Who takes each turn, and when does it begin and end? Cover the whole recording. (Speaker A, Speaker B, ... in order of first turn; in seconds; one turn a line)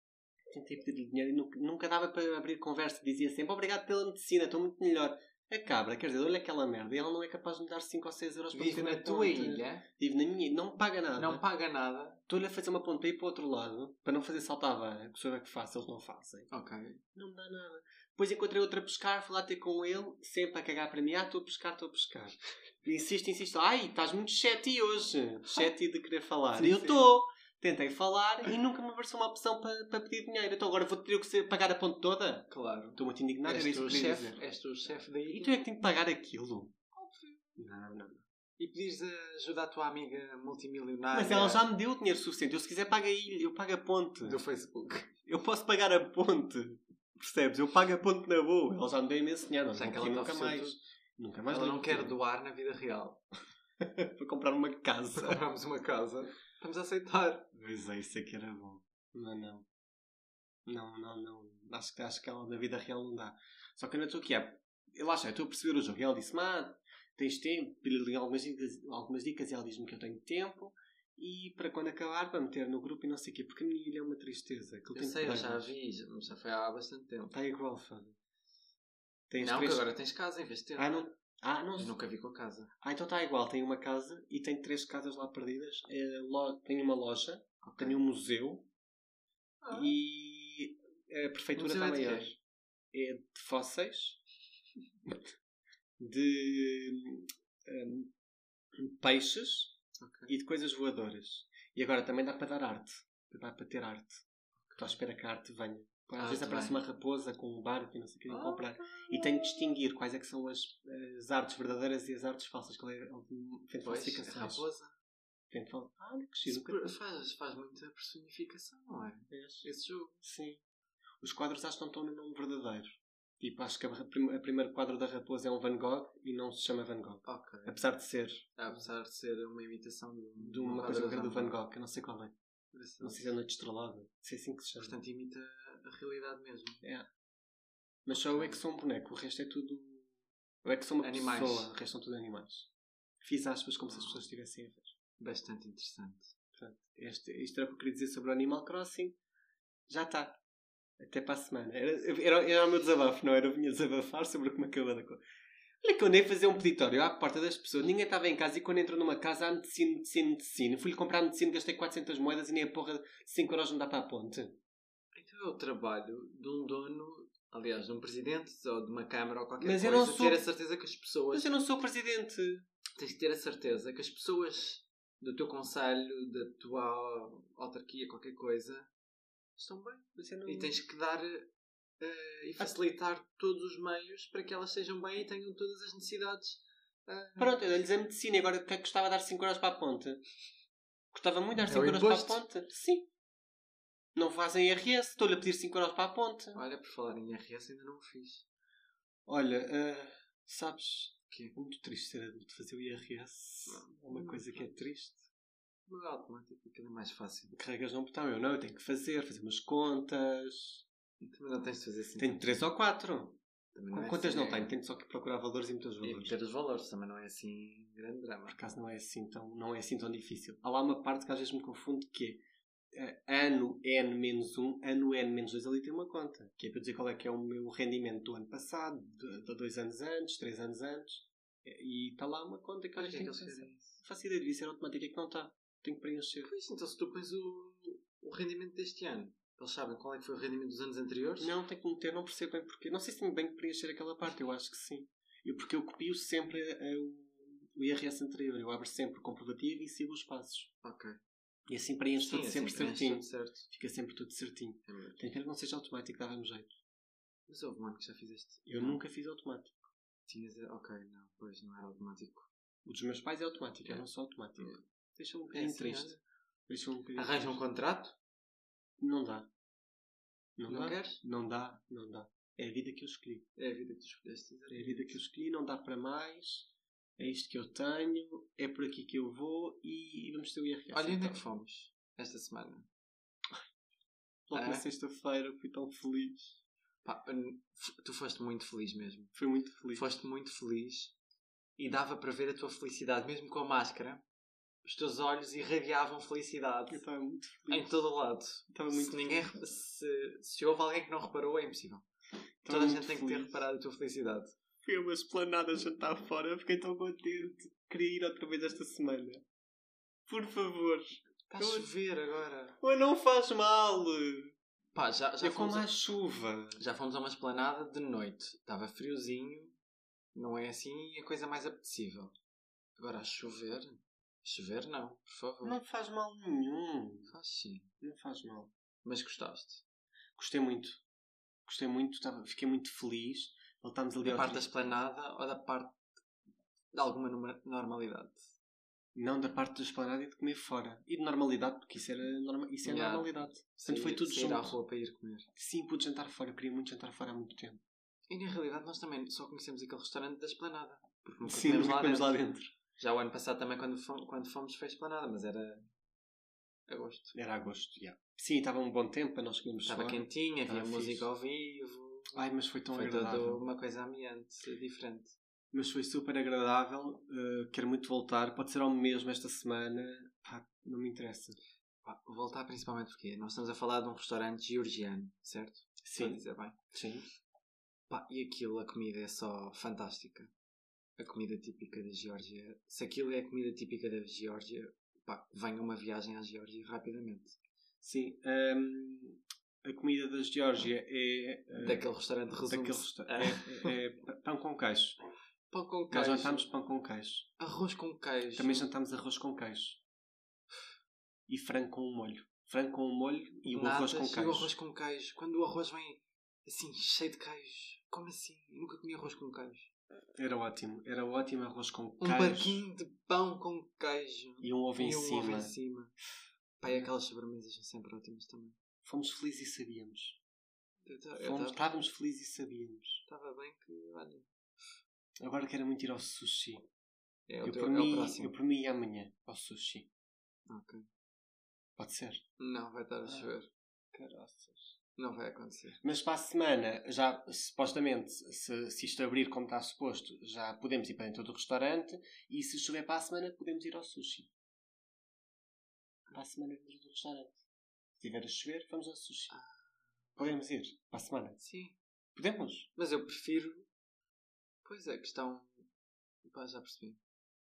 Speaker A: 0.5-11.4
Speaker B: 8.5-9.9
Speaker B: 11.2-12.2
Speaker A: 12.3-16.5
Speaker B: 16.5-17.0
Speaker A: 17.1-34.4
Speaker B: 26.5-27.1
Speaker B: 32.5-35.6
Speaker A: 35.3-36.8
Speaker B: 36.9-37.5
Speaker A: 37.6-38.2
Speaker B: 38.6-41.7
Speaker A: 41.1-44.4
Speaker B: 44.2-45.1
Speaker A: 45.2-52.2
Speaker B: 49.8-50.8
Speaker B: 51.5-53.2
Speaker A: 53.8-55.4
Speaker B: 55.1-57.5
Speaker A: 57.5-59.7
Speaker A: 60.7-75.6
Speaker B: 74.9-77.3
Speaker A: 77.3-78.2
Speaker A: 79.3-79.9
Speaker B: 79.4-81.1
Speaker A: 80.8-82.0
Speaker B: 81.8-82.7
Speaker A: 82.8-88.7
Speaker B: 87.6-88.0
Speaker B: 89.6-89.9
Speaker A: 89.7-92.4
Speaker B: 91.5-92.3
Speaker A: 92.9-94.2
Speaker A: 96.0-98.1
Speaker A: 98.8-99.8
Speaker B: 100.0-100.3
Speaker A: 100.3-104.2
Speaker B: 104.6-105.0
Speaker A: 104.8-114.7
Speaker B: 106.2-106.8
Speaker B: 108.3-109.8
Speaker B: 113.8-114.9
Speaker A: 115.5-116.9
Speaker B: 116.5-120.2
Speaker A: 119.3-119.7
Speaker A: 120.2-120.6
Speaker A: 121.2-128.8
Speaker B: 127.2-127.8
Speaker B: 128.6-131.6
Speaker A: 130.4-132.3
Speaker B: 132.7-133.3
Speaker A: 133.0-135.0
Speaker B: 134.8-136.8
Speaker A: 138.1-140.1
Speaker B: 138.2-138.6
Speaker A: 140.6-142.7
Speaker B: 141.0-141.7
Speaker A: 143.2-144.9
Speaker B: 143.9-144.2
Speaker B: 145.2-146.3
Speaker A: 146.6-149.2
Speaker A: 149.9-150.4
Speaker A: 151.0-155.2
Speaker A: 155.8-164.6
Speaker B: 165.1-171.5
Speaker A: 169.6-170.4
Speaker A: 171.3-172.7
Speaker B: 173.0-178.9
Speaker B: 179.6-187.6
Speaker A: 180.2-180.8
Speaker A: 187.4-190.2
Speaker A: 191.1-193.1
Speaker B: 191.7-192.4
Speaker A: 194.2-196.6
Speaker B: 196.6-198.5
Speaker A: 199.3-205.3
Speaker B: 203.7-204.7
Speaker B: 205.9-207.6
Speaker A: 207.5-210.8
Speaker B: 211.2-212.5
Speaker A: 212.2-213.4
Speaker B: 213.7-214.7
Speaker A: 213.9-216.3
Speaker B: 216.0-218.6
Speaker A: 218.5-222.4
Speaker A: 222.9-236.5
Speaker B: 232.9-234.0
Speaker B: 236.4-241.6
Speaker A: 241.4-250.7
Speaker B: 250.8-251.2
Speaker A: 251.7-256.8
Speaker B: 252.2-253.7
Speaker B: 254.9-255.2
Speaker B: 257.5-259.0
Speaker A: 258.7-259.8
Speaker B: 260.3-262.5
Speaker A: 262.9-267.6
Speaker B: 264.6-264.8
Speaker B: 265.5-266.2
Speaker B: 267.1-268.2
Speaker A: 269.0-269.5
Speaker A: 270.6-273.5
Speaker B: 270.7-271.2
Speaker B: 273.6-275.2
Speaker A: 274.7-281.4
Speaker B: 280.9-282.9
Speaker A: 284.5-286.6
Speaker B: 284.5-284.9
Speaker B: 287.1-289.3
Speaker A: 289.4-290.1
Speaker B: 289.9-291.2
Speaker B: 291.8-294.2
Speaker B: 294.8-297.0
Speaker A: 296.9-297.9
Speaker B: 297.7-302.1
Speaker A: 298.7-299.4
Speaker A: 302.6-303.6
Speaker B: 302.7-304.6
Speaker A: 304.8-309.4
Speaker A: 310.3-311.9
Speaker B: 311.5-312.8
Speaker A: 312.8-314.5
Speaker B: 314.9-315.9
Speaker A: 315.4-316.8
Speaker B: 316.8-319.8
Speaker B: 320.3-322.4
Speaker B: 323.0-325.8
Speaker A: 325.6-327.3
Speaker B: 327.3-327.9
Speaker A: 328.0-328.7
Speaker B: 329.0-329.8
Speaker A: 330.4-331.0
Speaker A: 331.7-334.7
Speaker B: 334.2-336.0
Speaker B: 336.9-338.5
Speaker A: 339.1-344.8
Speaker B: 342.8-345.5
Speaker A: 345.6-347.8
Speaker B: 348.3-352.4
Speaker A: 351.4-352.7
Speaker B: 353.0-355.9
Speaker B: 356.9-357.4
Speaker A: 357.3-361.2
Speaker B: 359.9-365.4
Speaker A: 362.3-363.6
Speaker A: 365.7-371.6
Speaker B: 372.0-376.8
Speaker A: 376.0-377.3
Speaker B: 378.1-380.5
Speaker B: 381.2-387.6
Speaker A: 388.0-392.0
Speaker B: 391.8-393.9
Speaker A: 392.7-395.2
Speaker B: 395.7-396.7
Speaker A: 396.1-397.5
Speaker B: 397.6-398.9
Speaker A: 398.6-400.0
Speaker A: 401.5-404.7
Speaker B: 403.7-409.9
Speaker A: 410.4-412.8
Speaker B: 412.2-416.2
Speaker A: 414.6-415.7
Speaker B: 416.8-418.8
Speaker A: 419.0-420.4
Speaker B: 421.1-421.8
Speaker A: 421.4-423.2
Speaker B: 423.3-424.5
Speaker A: 425.4-426.9
Speaker B: 427.5-428.5
Speaker A: 427.6-430.1
Speaker B: 430.7-431.1
Speaker A: 432.0-432.4
Speaker B: 432.6-433.7
Speaker A: 434.1-434.9
Speaker B: 435.1-436.0
Speaker A: 436.0-444.5
Speaker A: 446.3-447.6
Speaker A: 448.2-449.5
Speaker A: 450.4-451.6
Speaker B: 451.6-452.0
Speaker A: 452.4-452.9
Speaker B: 453.0-453.9
Speaker B: 454.8-455.9
Speaker B: 456.4-457.2